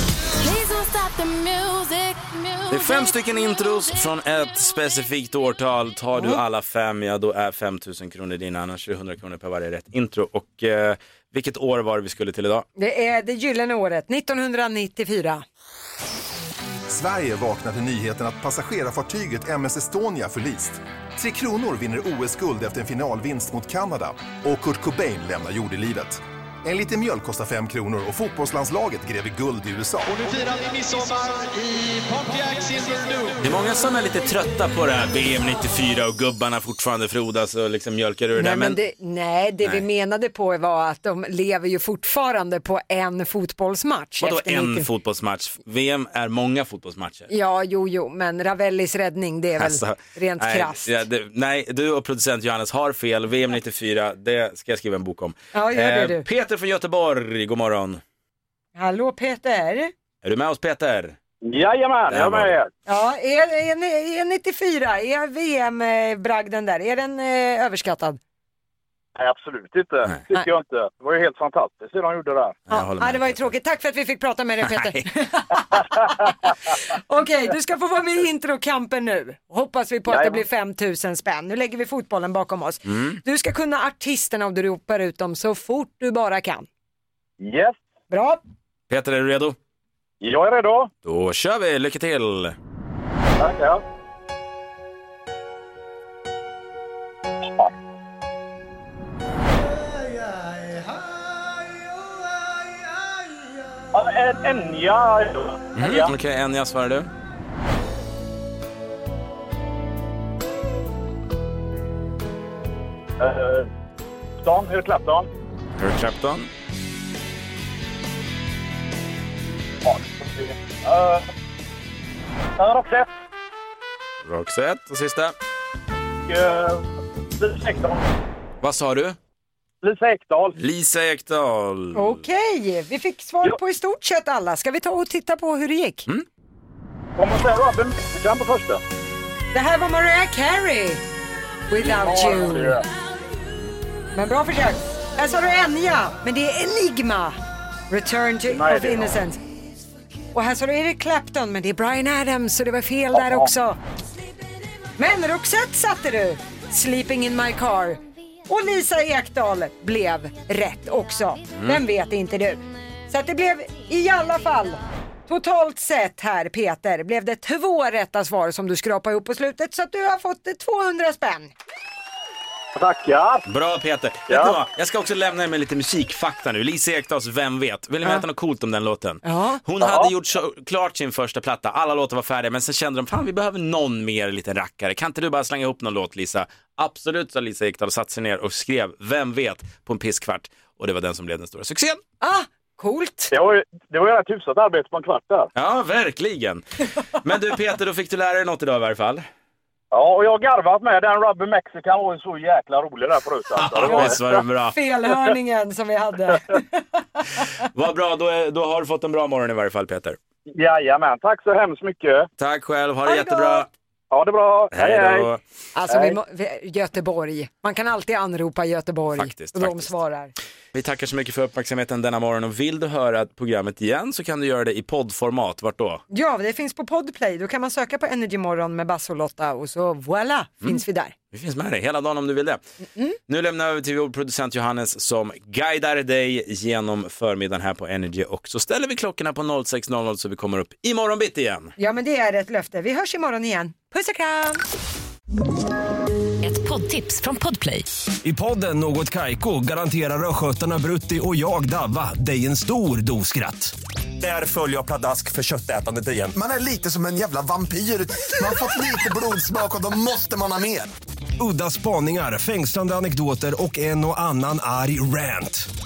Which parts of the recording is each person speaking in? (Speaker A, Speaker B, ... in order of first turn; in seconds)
Speaker A: 0.4-3.2, 246.4-247.9
Speaker B: 2.7-12.7, 33.4-38.8, 44.2-47.3, 49.6-58.0, 60.2-61.2, 62.1-62.6, 72.7-73.5, 74.6-75.1, 82.9-83.2, 88.9-89.6, 91.0-92.5, 105.8-107.1, 115.8-116.5, 124.2-125.3, 128.6-129.2, 130.6-132.2, 173.5-192.0, 195.5-199.2, 203.6-204.8, 207.6-210.2, 212.4-213.7, 214.7-215.4, 219.2-219.9, 220.7-226.0, 231.3-232.6, 233.3-241.7
Speaker C: 12.8-15.4, 38.4-44.9, 47.3-51.0, 55.5-56.2, 58.8-59.9, 62.9-68.2, 72.7-86.7, 88.1-88.4, 131.9-136.1, 139.5-141.0, 141.7-142.8, 144.1-147.4, 147.9-149.4, 150.3-153.8, 155.0-171.5, 179.2-179.6, 192.2-193.3, 203.8-207.4, 213.1-213.7, 215.7-220.3, 226.1-231.1, 241.8-244.6
Speaker D: 16.9-30.3
Speaker E: 30.2-33.4
Speaker F: 61.4-62.7, 69.2-72.6, 80.1-80.4, 87.4-87.8, 90.2-90.9, 93.4-93.8, 103.9-106.1, 113.2-113.7, 114.4-115.2, 119.8-121.2, 122.6-123.1, 126.3-126.8, 127.4-128.1, 129.8-130.6, 137.2-138.8, 141.8-142.8, 148.5-149.2, 153.1-153.5, 172.8-173.4, 174.3-174.6, 179.8-180.1, 193.3-195.5, 199.9-204.3, 210.5-212.3, 214.1-215.3, 215.9-216.2
Speaker G: 248.2-256.4, 261.4-265.7
Speaker H: 256.7-258.5, 259.5-260.6